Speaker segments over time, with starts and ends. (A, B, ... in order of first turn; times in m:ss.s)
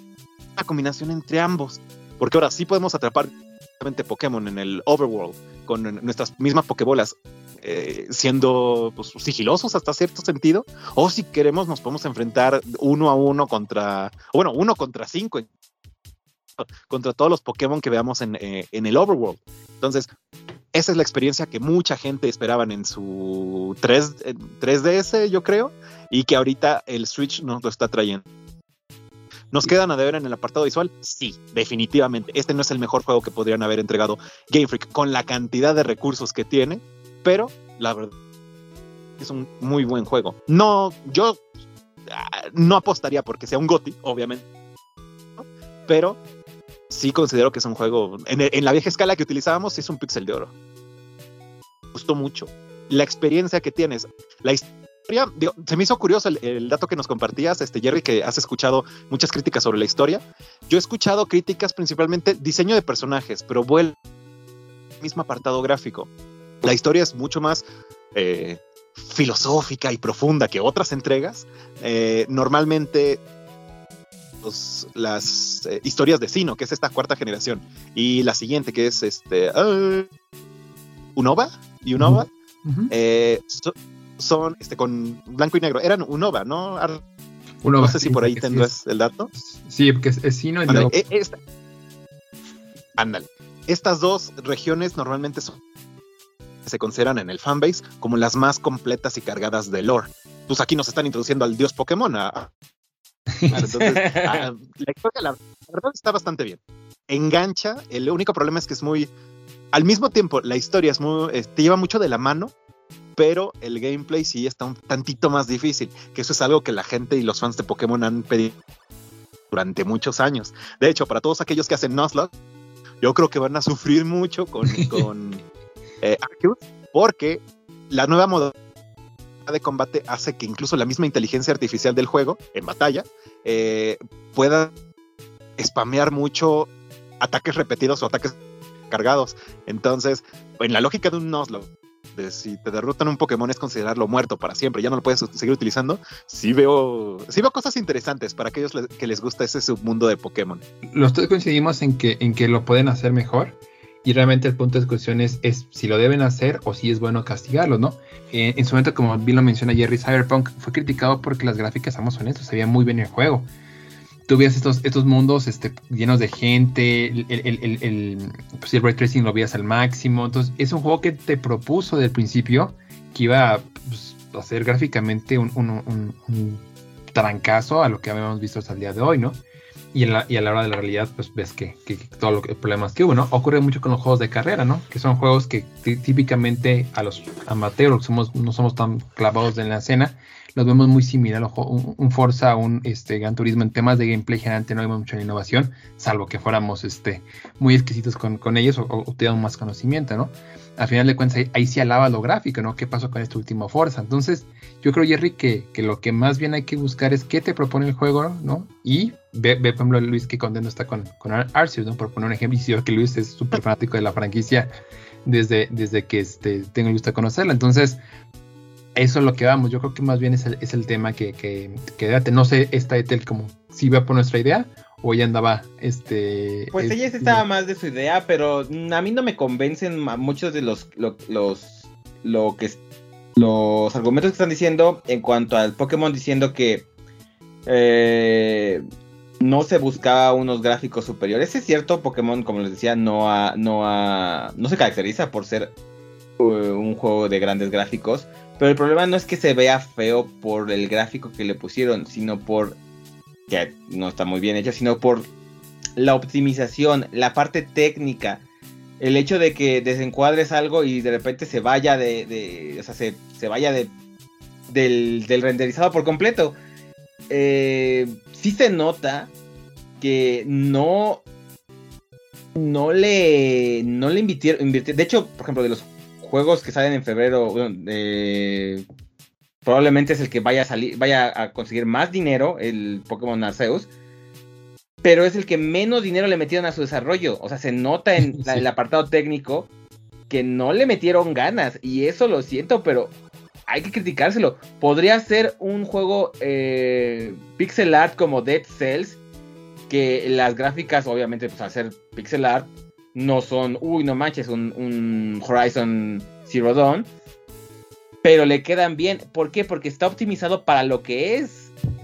0:00.6-0:15.5 A
0:16.6-0:20.1 A
0:20.7-0:28.2 A
0:29.5-0:38.1 A
0:39.2-0:41.4 A
0:42.1-0:44.4 A
0:45.4-0:46.2 A
0:46.9-0:50.5 A
0:51.9-1:04.0 A
1:05.0-1:06.1 A
1:06.6-1:13.2 A
1:14.4-1:20.1 A
1:21.2-1:22.3 A
1:22.0-1:22.9 B
1:22.9-1:27.0 A
1:27.6-1:28.7 B
1:27.8-1:29.3 A
1:29.3-1:31.0 B
1:30.7-1:31.4 A
1:32.9-1:35.6 A
1:36.6-1:42.5 A
1:43.5-1:49.1 A
1:43.8-1:44.4 C
1:49.7-1:52.5 A
1:53.2-1:58.5 A
1:59.5-2:02.3 A
2:03.0-2:05.4 A
2:04.7-2:05.0 B
2:06.0-2:08.5 A
2:09.4-2:14.7 A
2:15.6-2:18.4 A
2:18.9-2:30.6 A
2:30.9-2:43.5 B
2:44.3-2:59.4 B
2:59.9-3:34.7 B
3:35.2-3:38.0 B
3:38.9-3:47.4 B
3:46.7-3:52.8 C
3:53.4-3:56.8 C
3:57.6-3:58.8 C
3:59.4-4:05.7 C
4:06.4-4:12.8 C
4:13.5-4:15.3 C
4:16.0-4:18.4 C
4:19.0-4:23.9 C
4:24.7-4:26.6 C
4:27.3-4:29.3 C
4:30.0-4:31.2 C
4:32.5-4:38.8 C
4:39.6-4:43.9 C
4:45.0-4:49.7 C
4:48.2-4:48.6 B
4:50.3-4:53.1 C
4:53.7-4:59.2 C
4:59.9-5:07.1 C
5:08.2-5:11.7 C